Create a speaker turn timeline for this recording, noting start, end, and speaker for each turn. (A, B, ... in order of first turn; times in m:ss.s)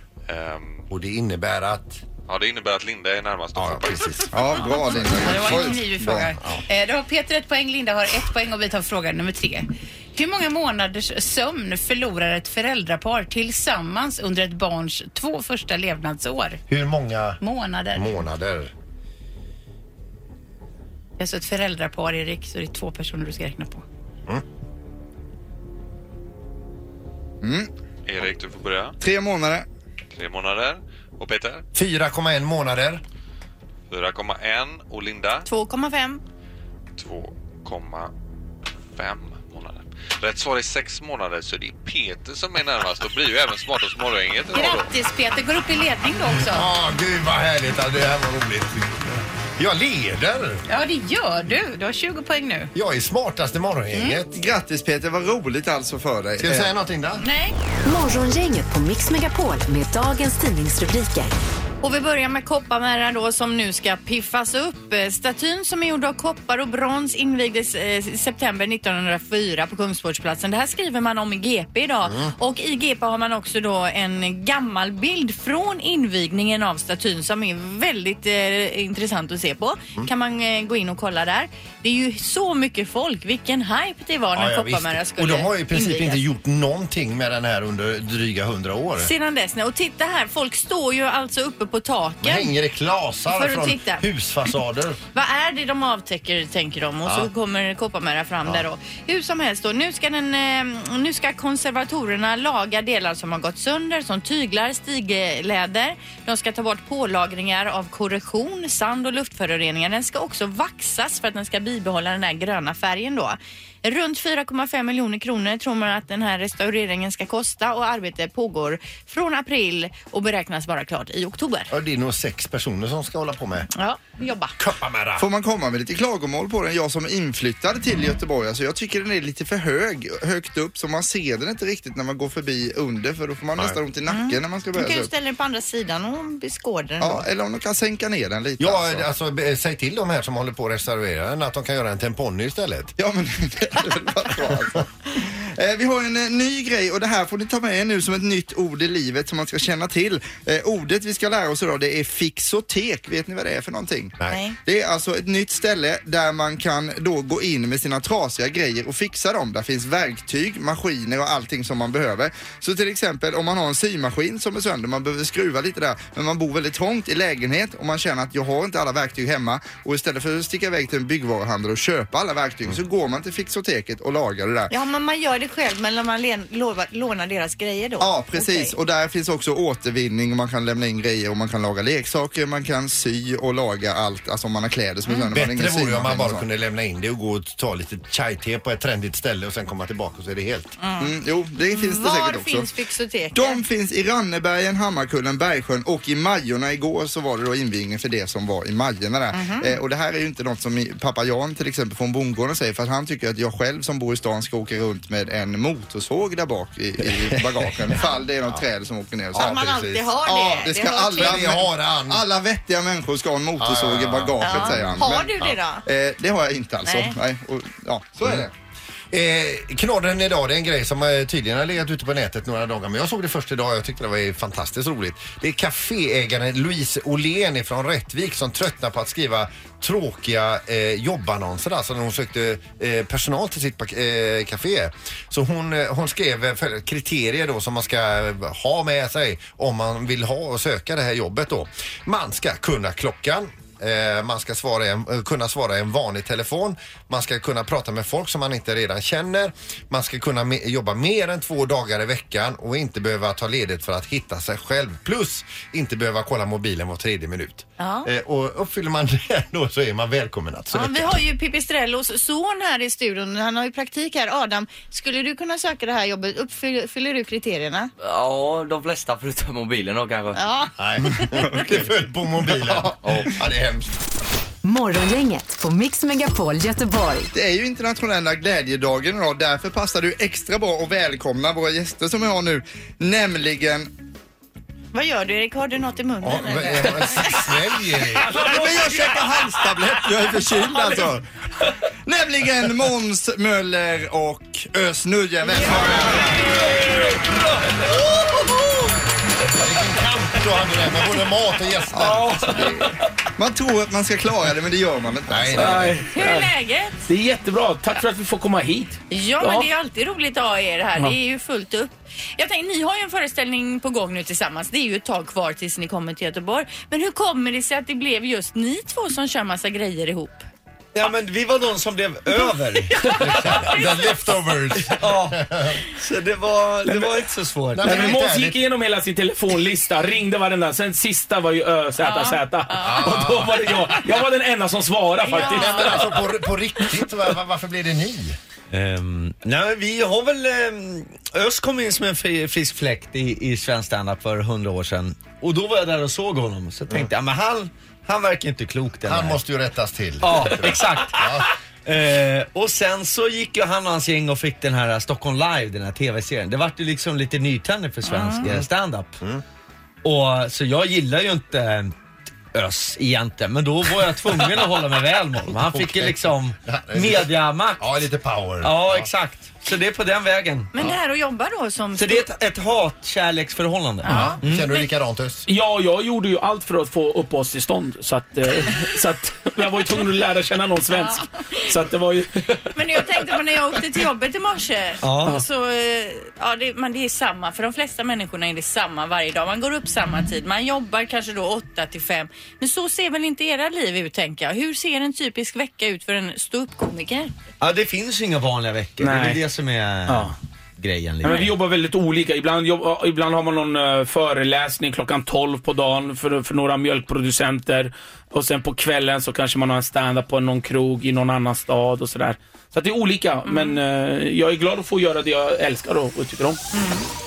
0:00.3-0:00.9 A
0:00.9-0:02.0 B
0:02.3-0:04.6 A
0:03.5-0:04.3 B
0:04.3-0:06.3 C
0:05.0-0:05.8 B
0:05.2-0:16.6 D
0:06.4-0:06.6 B
0:16.7-0:17.4 B
0:17.4-0:18.1 D
0:17.9-0:18.7 B
0:21.2-0:23.8 D
0:27.4-0:27.7 C
0:28.1-0:29.0 A
0:29.0-0:29.6 C
0:30.2-0:31.6 A
0:31.7-0:33.0 B
0:33.9-0:35.5 A
0:35.4-0:36.2 E
0:37.0-0:38.1 A
0:39.0-0:44.9 A
0:44.5-0:46.7 D
0:46.4-0:50.6 B
0:50.7-0:52.7 D
0:52.7-0:54.4 B
0:53.9-0:54.2 D
0:54.3-0:56.7 C
0:56.4-0:57.2 B
0:57.2-0:57.6 E
0:57.8-1:01.3 F
1:01.8-1:26.2 E
1:12.1-1:12.3 B
1:24.3-1:29.1 B
1:29.0-1:32.5 E
1:32.2-1:35.0 B
1:33.3-1:34.0 E
1:35.1-2:01.7 E
1:37.0-1:37.3 B
2:01.7-2:03.7 B
2:03.7-2:04.5 E
2:04.6-2:05.2 B
2:05.2-2:15.1 C
2:14.1-2:17.2 E
2:17.0-2:19.1 C
2:18.6-2:22.9 B
2:23.0-2:54.7 C
2:34.3-2:34.6 E
2:54.7-2:58.7 E
2:58.0-3:06.4 C
3:05.3-3:10.8 B
3:10.8-3:11.1 E
3:11.0-3:12.7 C
3:11.7-3:13.6 E
3:13.3-3:38.5 C
3:19.3-3:19.8 E
3:27.0-3:28.0 B
3:29.3-3:30.1 B
3:29.3-3:31.6 E
3:31.1-3:32.2 B
3:33.6-3:35.6 B
3:34.4-3:35.8 E
3:36.8-3:37.1 E
3:39.1-4:21.2 B
4:17.8-4:18.1 E
4:20.7-4:27.9 E
4:28.0-4:30.4 G
4:30.3-4:31.4 E
4:30.8-4:33.9 B
4:31.5-4:31.8 C
4:34.6-4:37.3 F
4:37.3-4:43.9 C
4:44.9-4:47.5 E
4:46.2-4:48.3 B
4:48.2-4:49.6 H
4:48.4-4:51.2 C
4:50.4-4:51.1 H
4:52.0-4:56.4 C
4:57.2-4:57.8 I
4:59.5-5:02.7 B
5:01.9-5:06.0 C
5:02.0-5:03.0 H
5:05.3-5:06.0 B
5:05.6-5:06.5 H
5:06.1-5:07.1 E
5:07.1-5:09.7 H
5:09.1-5:20.4 E
5:20.9-5:23.0 I
5:22.3-5:24.3 E
5:23.2-5:25.8 B
5:24.8-5:28.1 I
5:26.9-5:27.2 H
5:27.8-5:28.6 B
5:27.8-5:36.2 H
5:32.0-5:33.2 E
5:32.8-5:33.7 B
5:35.2-5:36.1 E
5:35.4-5:38.4 B
5:38.7-5:49.4 I
5:49.0-5:51.5 B
5:50.2-5:59.1 I
5:58.0-5:58.4 E
5:58.4-5:58.7 B
6:00.0-6:01.9 I
6:02.5-6:07.9 I
6:05.6-6:09.1 B
6:08.6-6:10.7 I
6:10.7-6:12.3 E
6:12.0-6:14.7 I
6:14.0-6:14.9 E
6:14.0-6:14.4 H
6:14.1-6:15.4 B
6:15.4-6:22.7 H
6:20.9-6:21.2 E
6:22.7-6:37.3 E
6:25.0-6:25.4 I
6:37.6-6:41.5 I
6:39.0-6:39.4 H
6:40.1-6:40.3 H
6:41.2-6:56.6 H
6:53.4-6:53.8 E
6:56.7-6:57.1 E